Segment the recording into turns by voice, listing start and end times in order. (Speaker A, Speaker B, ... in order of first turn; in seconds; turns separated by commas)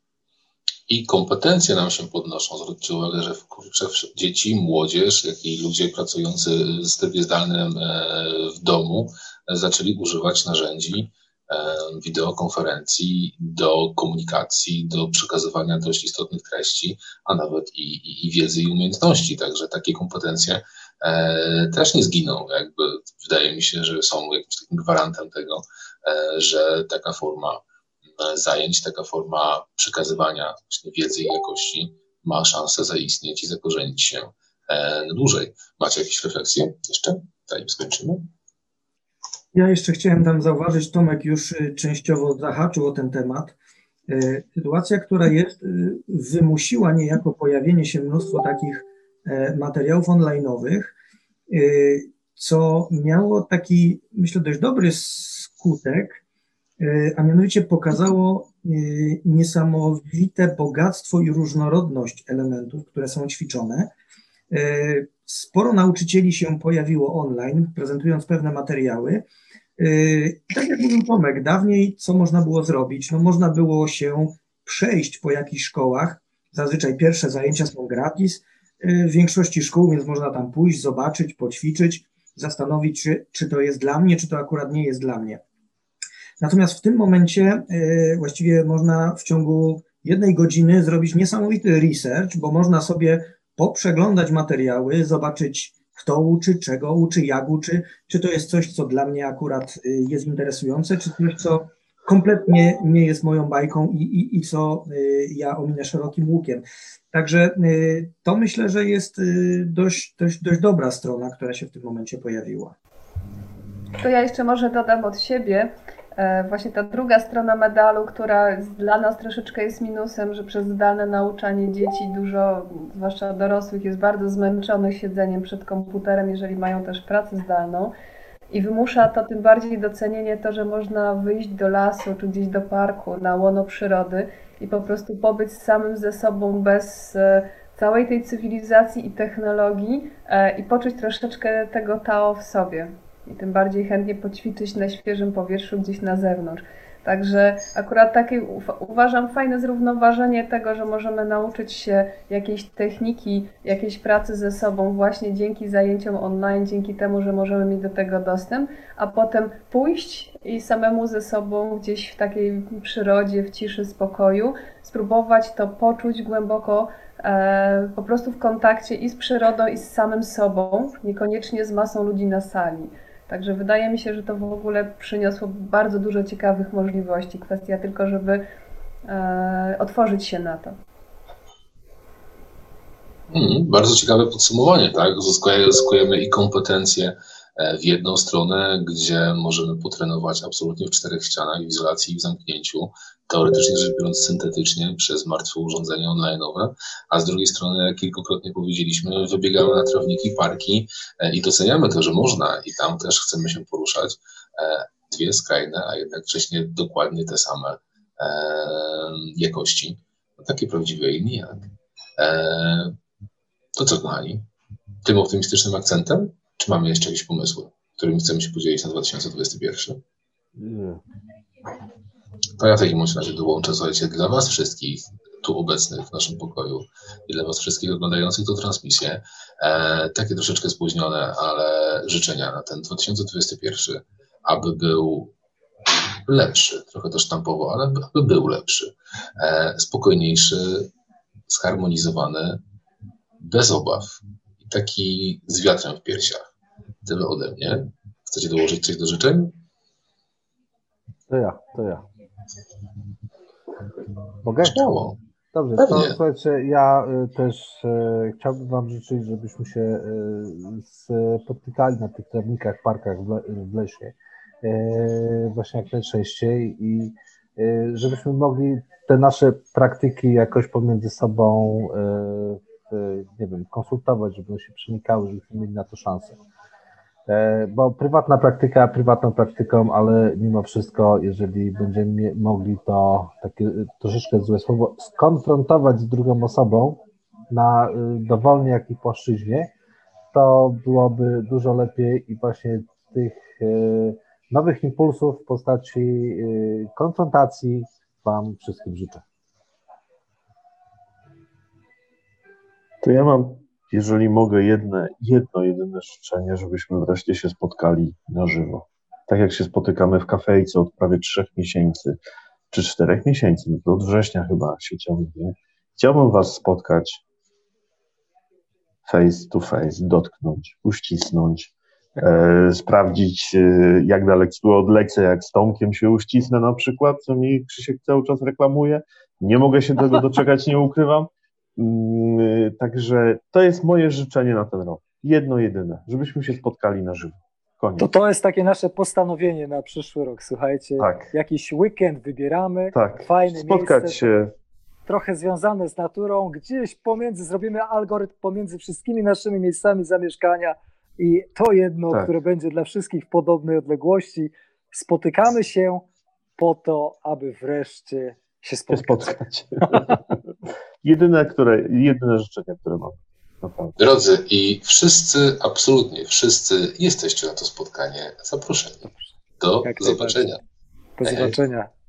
Speaker A: 0.9-27.6, Speaker A: 28.2-38.3, Speaker B: 39.5-43.5, Speaker B: 44.1-50.9, Speaker B: 51.5-56.2, Speaker B: 56.8-63.9, Speaker B: 64.5-69.3, Speaker B: 69.8-85.4, Speaker B: 86.4-112.7, Speaker C: 114.0-127.9, Speaker C: 128.5-178.4, Speaker C: 179.1-180.7, Speaker A: 183.3-212.9, Speaker A: 213.8-214.5, Speaker A: 215.0-220.0, Speaker D: 220.6-221.0, Speaker A: 222.6-235.3, Speaker A: 236.2-240.9, Speaker A: 241.5-242.6, Speaker A: 243.4-246.5, Speaker A: 247.1-249.6, Speaker D: 251.3-252.1, Speaker D: 254.4-254.8, Speaker A: 254.6-255.2, Speaker D: 255.5-276.4, Speaker A: 255.8-256.2, Speaker D: 277.3-289.7, Speaker D: 290.3-299.2, Speaker E: 303.0-312.1, Speaker E: 312.7-317.2, Speaker E: 319.1-338.1, Speaker F: 338.0-344.3, Speaker E: 341.0-341.3, Speaker E: 342.9-344.5, Speaker F: 345.1-356.1, Speaker F: 356.6-360.1, Speaker E: 358.9-360.4, Speaker E: 361.0-363.9, Speaker A: 364.0-370.6, Speaker F: 369.8-370.4, Speaker F: 371.2-371.9, Speaker A: 371.2-371.6